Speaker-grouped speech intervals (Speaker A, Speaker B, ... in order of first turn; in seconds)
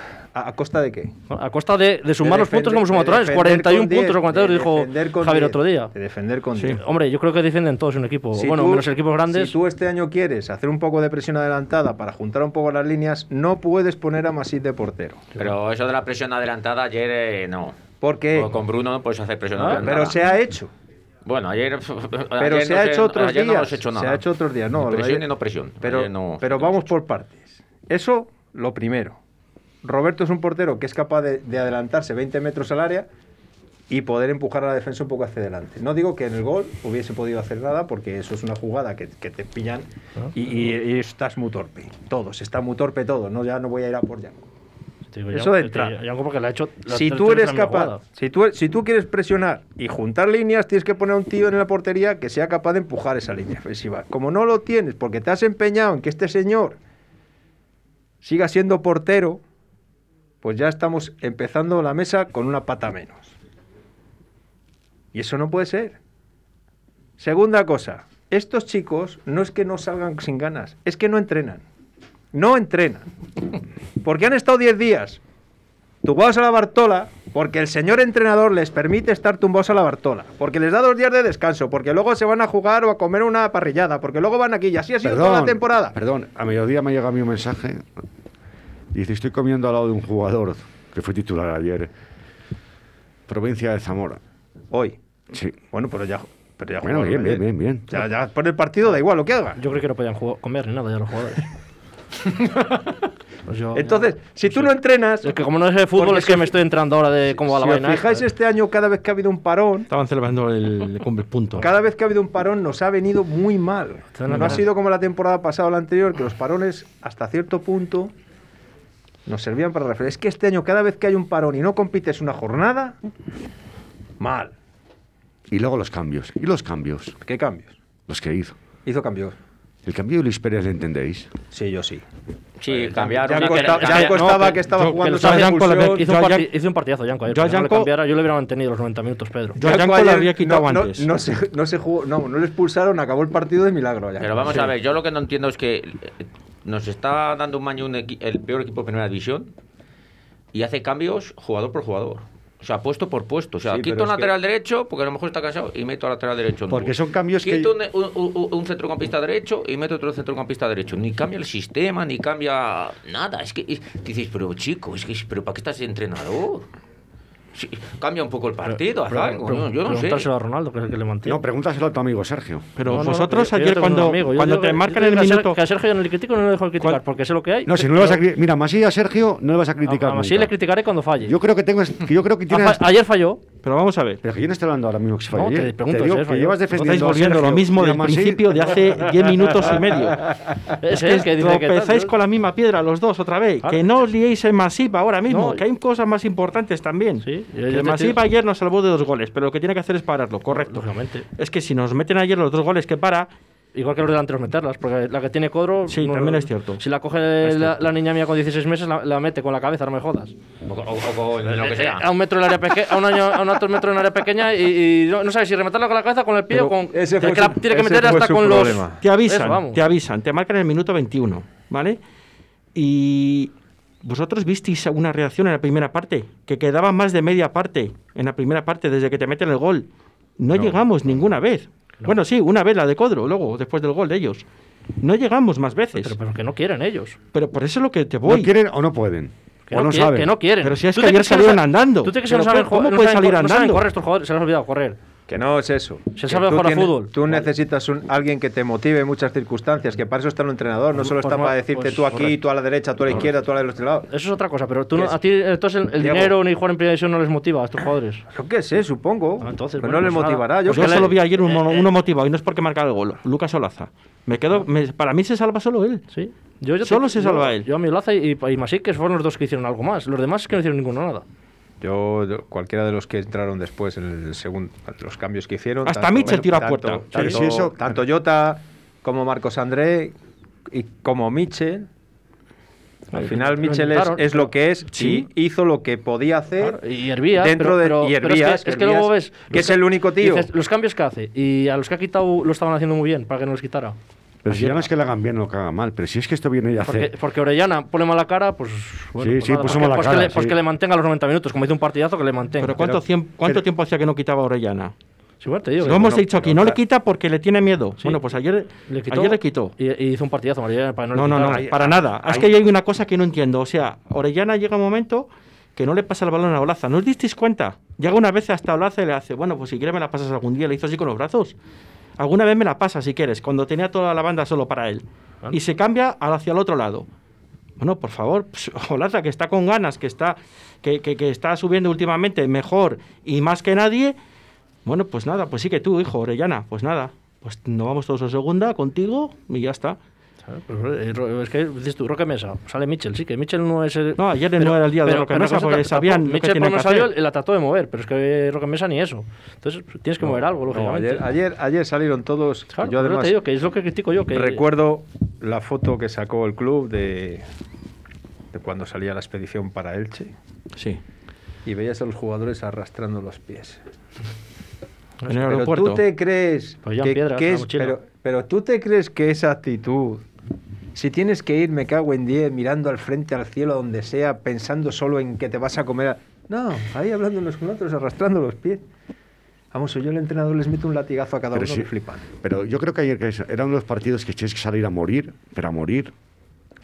Speaker A: 0.3-1.1, 2.2-6.8, 8.4-15.3, 18.0-18.5, 19.8-20.7, 22.4-25.2, 25.8-29.2, 29.8-33.1, 33.9-44.4, 45.3-45.9, 46.9-56.8, 58.2-59.4, 60.4-63.4, 65.1-66.0, 67.2-71.6, 72.3-73.0, 74.0-75.2, 76.0-86.0, 94.7-95.0, 95.7-99.6, 102.3-103.0, 103.7-105.4, 106.0-106.5, 107.5-109.9, 111.6-118.1, 119.3-123.0, 124.2-124.5, 127.2-127.8, 128.8-129.4, 131.5-132.0, 132.7-136.0, 139.6-144.6, 153.7-154.3, 216.9-219.0, 245.3-254.1, 256.0-256.4, 258.3-261.2, 271.8-280.1, 280.7-281.9, 283.2-286.8, 287.4-290.5, 350.2-353.4, 354.3-357.5, 358.5-360.3, 361.7-363.8, 365.4-370.2, 370.9-378.8, 379.7-382.2
Speaker B: 1.3-5.9, 6.7-9.6, 19.6-19.9, 45.1-48.0, 99.6-101.5, 103.5-108.3, 114.1-114.7, 133.5-139.6, 168.7-171.4, 172.9-178.2, 179.8-181.4, 182.5-183.4, 185.3-186.7, 190.8-192.1, 195.3-195.6, 197.2-198.2, 200.5-201.3, 203.8-210.3, 211.6-219.8, 236.0-237.2, 239.7-245.0, 246.2-247.5, 250.9-252.5, 254.1-258.2, 259.4-261.9, 266.1-271.2, 283.1-284.5, 286.6-294.0, 296.8-302.8, 305.4-306.3, 308.9-311.7, 340.5-351.3, 352.7-354.6, 366.9-368.0
Speaker C: 15.4-20.3, 21.2-26.9, 132.6-134.5, 144.2-149.5, 150.5-166.7, 167.6-170.3, 210.7-212.1
Speaker D: 85.0-87.9, 88.9-91.9, 93.3-94.2, 95.3-95.6, 96.8-97.9, 125.5-127.2, 128.1-128.6, 129.9-131.3, 156.7-157.7, 171.3-172.7, 177.7-180.5, 181.2-182.8, 184.2-188.7, 238.2-240.3, 277.1-277.8, 294.4-297.1, 299.2-300.6, 302.8-303.6, 305.9-306.8, 311.4-312.5, 381.5-386.1
Speaker E: 109.9-111.7, 114.3-114.6, 134.7-136.5, 137.3-137.9, 139.6-141.1, 172.8-175.6, 183.6-184.2, 186.7-190.3, 190.8-200.9, 201.4-203.3, 205.9-206.8, 207.4-207.7, 216.5-217.5, 219.0-222.0, 222.8-223.5, 224.0-229.9, 230.4-234.4, 235.0-236.2, 237.3-238.5, 240.6-243.8, 260.7-266.0, 266.8-267.7, 275.9-277.5, 284.9-285.3, 302.6-304.9, 305.8-309.7, 311.1-321.6, 322.2-327.1, 327.8-334.2, 334.9-340.0, 344.2-347.1, 365.3-366.0